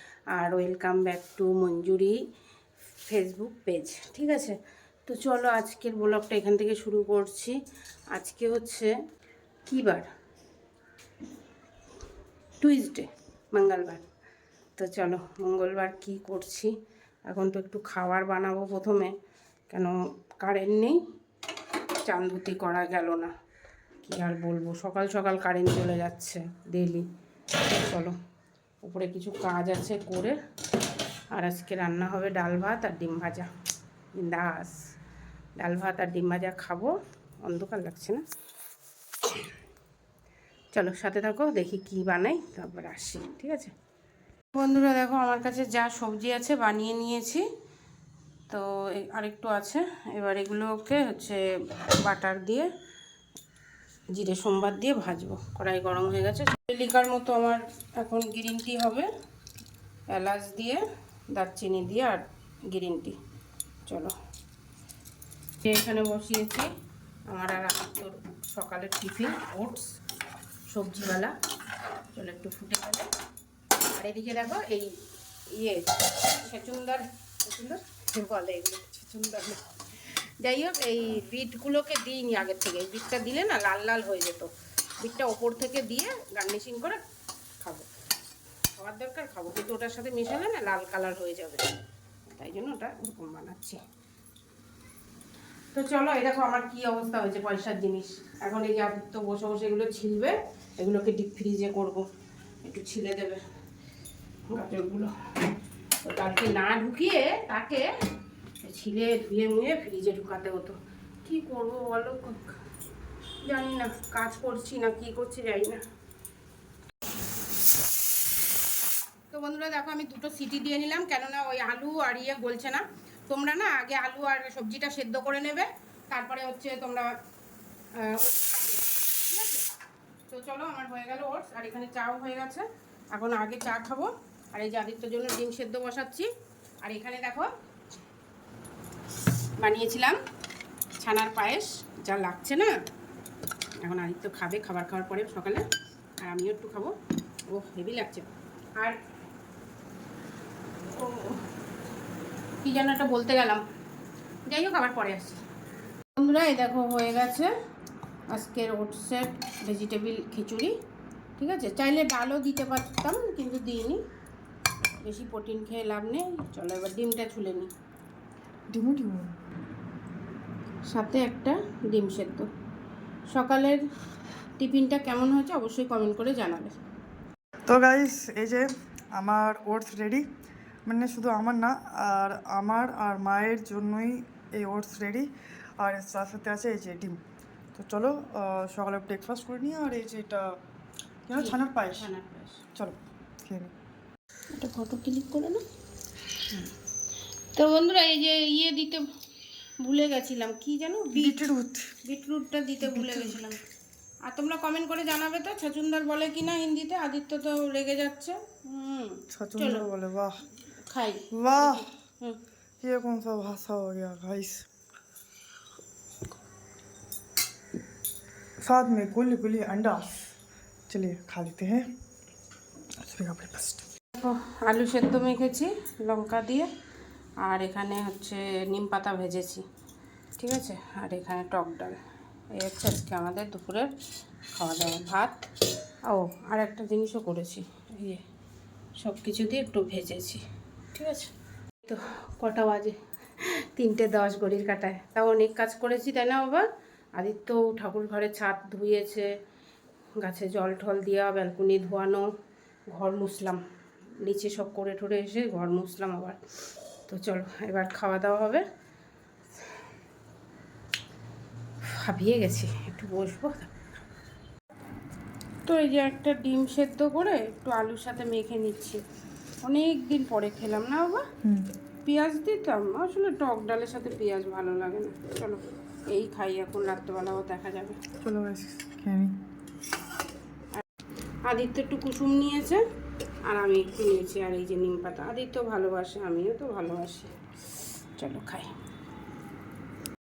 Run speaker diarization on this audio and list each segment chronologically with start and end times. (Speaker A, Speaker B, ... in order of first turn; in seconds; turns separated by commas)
Speaker A: 0.3-2.2, Speaker A: 3.0-4.5, Speaker A: 5.1-7.5, Speaker A: 8.1-8.9, Speaker A: 9.7-10.1, Speaker A: 12.6-14.1, Speaker A: 14.8-16.7, Speaker A: 17.3-19.1, Speaker A: 19.7-21.0, Speaker A: 22.0-23.3, Speaker A: 24.0-27.1, Speaker A: 27.7-28.1, Speaker A: 28.8-30.4, Speaker A: 31.3-33.5, Speaker A: 34.1-34.8, Speaker A: 35.6-38.2, Speaker A: 40.7-43.7, Speaker A: 44.5-47.4, Speaker A: 48.5-51.4, Speaker A: 52.0-52.7, Speaker A: 54.1-59.1, Speaker A: 60.1-60.8, Speaker A: 61.3-63.1, Speaker A: 63.9-64.1, Speaker A: 65.6-66.7, Speaker A: 67.3-69.8, Speaker A: 70.7-71.3, Speaker A: 72.1-73.1, Speaker A: 73.9-74.9, Speaker A: 75.5-79.6, Speaker A: 80.4-84.5, Speaker A: 85.0-87.0, Speaker A: 87.6-87.9, Speaker A: 88.7-91.7, Speaker A: 92.3-93.8, Speaker A: 95.7-102.0, Speaker A: 102.6-103.4, Speaker A: 104.5-105.1, Speaker A: 106.0-107.9, Speaker A: 108.6-112.5, Speaker A: 113.4-115.8, Speaker A: 119.3-127.1, Speaker A: 128.0-129.7, Speaker A: 130.3-136.3, Speaker A: 136.8-137.5, Speaker A: 139.6-140.2, Speaker A: 141.0-142.7, Speaker A: 143.8-145.7, Speaker A: 146.2-146.9, Speaker A: 147.5-148.9, Speaker A: 150.9-151.4, Speaker A: 152.6-153.6, Speaker A: 154.5-155.4, Speaker A: 156.2-157.5, Speaker A: 158.3-160.7, Speaker A: 161.4-164.0, Speaker A: 165.0-167.7, Speaker B: 168.7-169.3, Speaker A: 170.9-172.5, Speaker A: 173.3-173.8, Speaker A: 174.6-176.7, Speaker B: 177.7-180.2, Speaker B: 180.9-185.3, Speaker B: 185.8-187.2, Speaker B: 187.7-190.4, Speaker B: 191.3-192.1, Speaker A: 191.3-192.6, Speaker B: 192.8-193.7, Speaker A: 194.6-195.6, Speaker A: 197.5-199.1, Speaker A: 199.8-201.4, Speaker B: 201.1-201.9, Speaker A: 202.0-203.6, Speaker B: 202.8-203.5, Speaker A: 204.3-209.9, Speaker B: 209.3-210.3, Speaker A: 210.9-212.4, Speaker B: 211.3-211.9, Speaker B: 212.8-214.6, Speaker B: 218.6-220.2, Speaker B: 220.9-221.8, Speaker B: 223.0-223.8, Speaker A: 224.1-226.7, Speaker A: 227.4-229.6, Speaker A: 230.4-231.9, Speaker A: 232.6-233.9, Speaker A: 234.5-235.4, Speaker A: 236.1-238.2, Speaker A: 239.0-240.4, Speaker A: 240.9-241.3, Speaker A: 241.8-249.3, Speaker A: 250.2-252.3, Speaker A: 252.9-253.6, Speaker A: 254.2-256.4, Speaker A: 257.1-258.6, Speaker A: 261.8-263.8, Speaker A: 265.6-269.0, Speaker A: 269.6-271.2, Speaker A: 272.0-278.0, Speaker B: 278.2-279.3, Speaker A: 281.5-282.8, Speaker A: 283.4-287.3, Speaker A: 288.1-288.7